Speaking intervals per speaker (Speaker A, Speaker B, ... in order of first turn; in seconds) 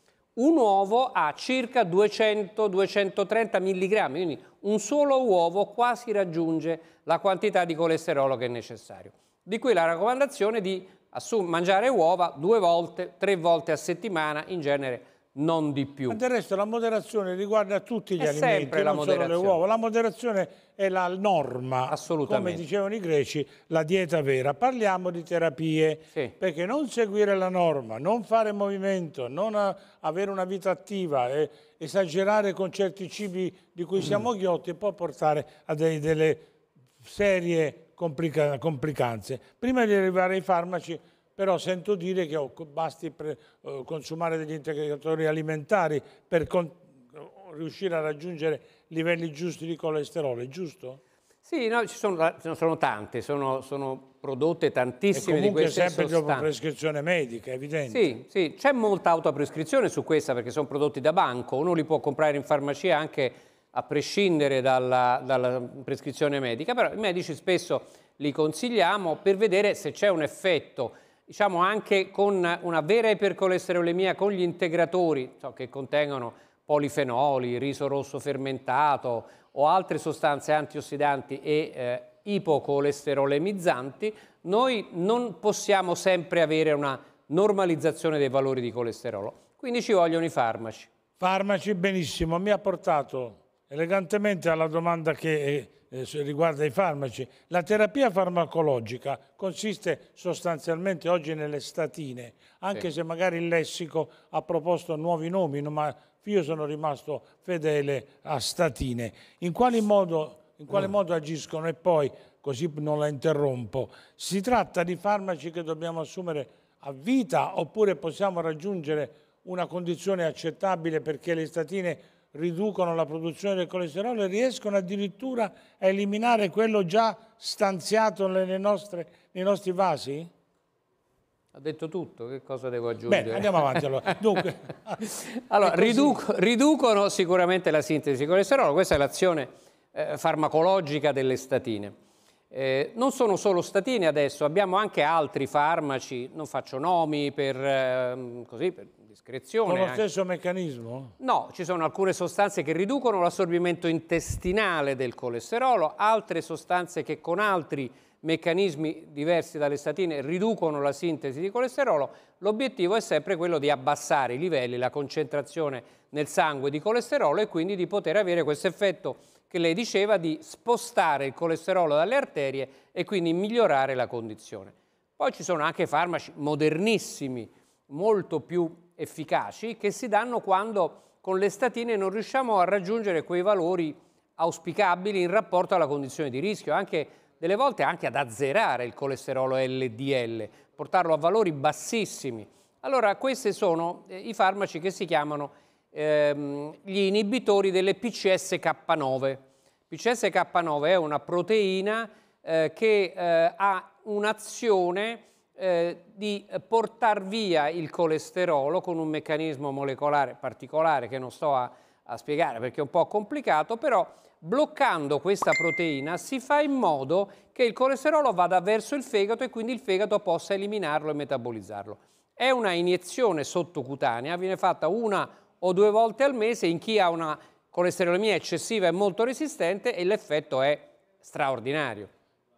Speaker A: 0.4-16.2, 18.2-19.6, 21.9-22.6, 51.5-56.5, 57.9-90.9, 131.6-133.9, 135.0-141.9, 142.5-150.0, 151.2-232.1
Speaker B: 16.1-36.5, 37.0-51.0, 55.1-58.2, 91.2-130.3, 133.1-135.0, 135.6-136.2, 149.7-151.1